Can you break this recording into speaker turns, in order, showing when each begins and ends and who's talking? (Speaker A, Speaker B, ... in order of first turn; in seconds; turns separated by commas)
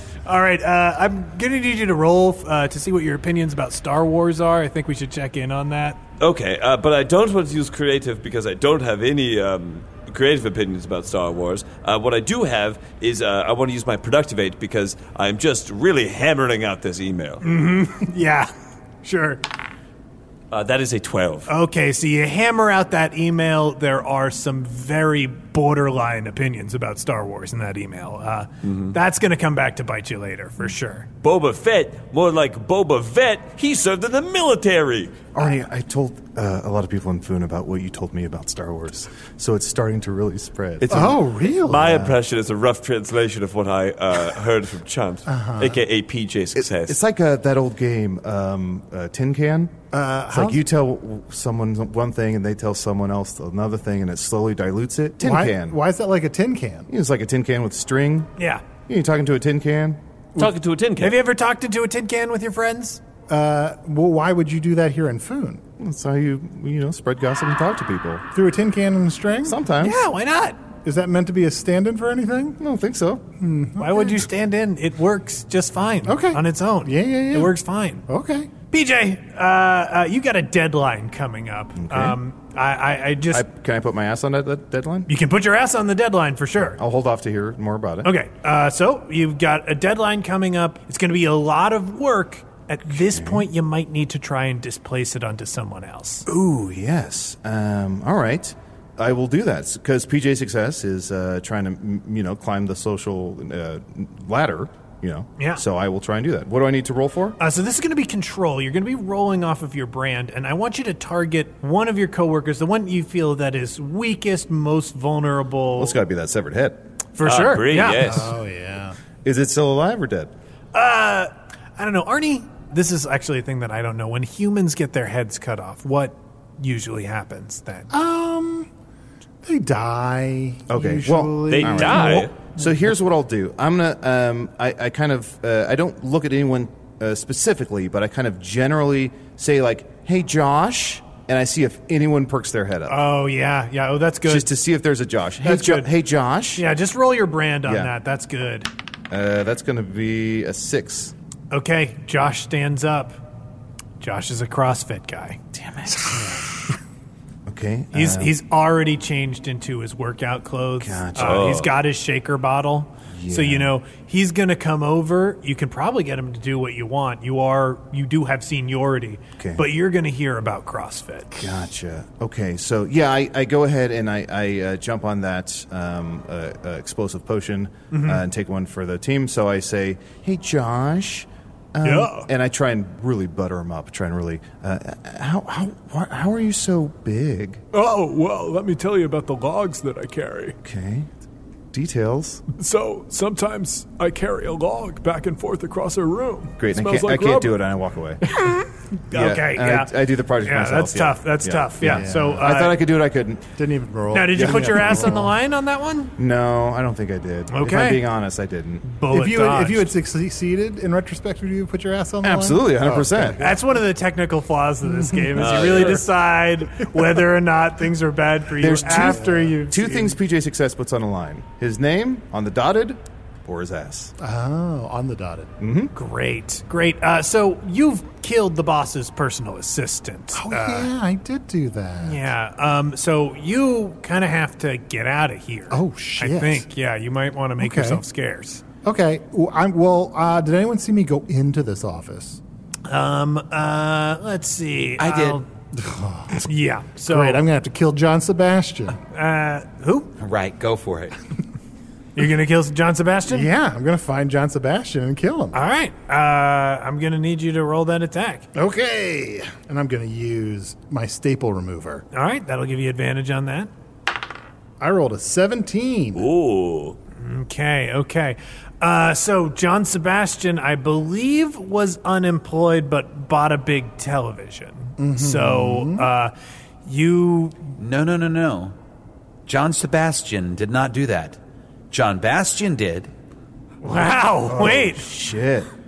Speaker A: 0.3-6.0, Speaker B: 6.2-17.4, Speaker A: 17.4-18.5, Speaker A: 19.0-19.4, Speaker B: 20.5-21.5, Speaker A: 21.5-31.1, Speaker B: 28.6-29.0, Speaker B: 31.2-35.2, Speaker C: 35.3-41.1, Speaker B: 40.8-47.0, Speaker D: 40.9-42.1, Speaker D: 45.3-45.8, Speaker C: 46.6-49.8, Speaker D: 49.9-50.6, Speaker C: 50.3-55.8, Speaker D: 55.2-56.9, Speaker C: 56.9-58.3, Speaker A: 58.4-58.6, Speaker C: 58.9-60.0, Speaker B: 60.4-61.2, Speaker A: 61.0-63.0, Speaker D: 63.3-65.6, Speaker C: 65.8-68.2, Speaker D: 68.3-69.6, Speaker C: 69.5-70.0, Speaker A: 69.8-70.6, Speaker D: 70.8-72.6, Speaker C: 72.6-73.2, Speaker D: 73.4-74.3, Speaker A: 73.8-78.0, Speaker D: 76.0-77.5, Speaker D: 78.1-78.5, Speaker A: 78.7-83.5, Speaker C: 81.8-82.2, Speaker C: 83.3-85.1, Speaker A: 85.1-86.8, Speaker C: 86.8-88.1, Speaker A: 88.0-96.3, Speaker C: 93.1-93.5, Speaker C: 96.3-107.4, Speaker A: 107.4-116.0, Speaker C: 115.8-116.8, Speaker A: 117.2-118.2, Speaker B: 117.2-118.4, Speaker D: 117.9-119.0, Speaker C: 119.2-120.3, Speaker A: 120.7-127.9, Speaker D: 127.9-128.7, Speaker D: 129.4-132.3, Speaker C: 130.7-143.1, Speaker B: 131.5-132.4, Speaker A: 142.9-144.5, Speaker C: 144.2-146.7, Speaker A: 145.4-145.9, Speaker A: 146.6-148.7, Speaker C: 147.7-147.9, Speaker C: 149.1-151.1, Speaker A: 151.5-153.2, Speaker A: 154.0-155.4, Speaker C: 155.6-156.0, Speaker C: 157.5-158.3, Speaker A: 157.9-171.5, Speaker C: 160.8-161.6, Speaker B: 161.2-161.7, Speaker C: 163.1-163.7, Speaker C: 169.4-169.7, Speaker C: 171.4-187.6, Speaker A: 177.9-178.2, Speaker A: 181.8-182.3, Speaker E: 187.7-190.6, Speaker C: 190.6-191.1, Speaker C: 191.7-192.4, Speaker E: 192.6-197.7, Speaker C: 196.6-198.2, Speaker A: 198.4-199.9, Speaker C: 199.1-203.4, Speaker A: 200.4-202.8, Speaker D: 201.8-202.5, Speaker D: 203.6-205.3, Speaker A: 204.1-206.1, Speaker C: 204.4-205.1, Speaker C: 206.2-208.8, Speaker A: 207.5-208.0, Speaker A: 208.8-209.9, Speaker D: 209.1-213.7, Speaker C: 212.2-213.4, Speaker A: 213.4-220.1, Speaker D: 214.8-215.9, Speaker B: 215.3-216.1, Speaker D: 216.8-217.1, Speaker C: 218.6-224.1, Speaker D: 218.9-219.6, Speaker D: 224.2-225.5, Speaker C: 225.6-225.9, Speaker A: 225.9-230.9, Speaker D: 230.3-232.3, Speaker A: 232.0-238.6, Speaker D: 235.7-236.7, Speaker D: 237.6-238.0, Speaker D: 238.8-242.4, Speaker A: 242.9-245.5, Speaker F: 245.0-245.4, Speaker D: 245.8-246.4, Speaker A: 246.4-247.4, Speaker D: 247.1-249.0, Speaker A: 249.1-250.1, Speaker F: 250.2-251.2, Speaker A: 252.2-253.5, Speaker D: 253.3-255.6, Speaker A: 255.5-258.4, Speaker D: 258.6-262.0, Speaker A: 262.1-263.7, Speaker D: 264.8-266.3, Speaker B: 266.1-267.0, Speaker A: 267.2-276.3, Speaker D: 275.0-276.1, Speaker A: 276.9-277.6, Speaker F: 277.8-278.8, Speaker F: 279.5-281.4, Speaker F: 281.9-283.1, Speaker A: 283.8-285.0, Speaker C: 284.6-285.7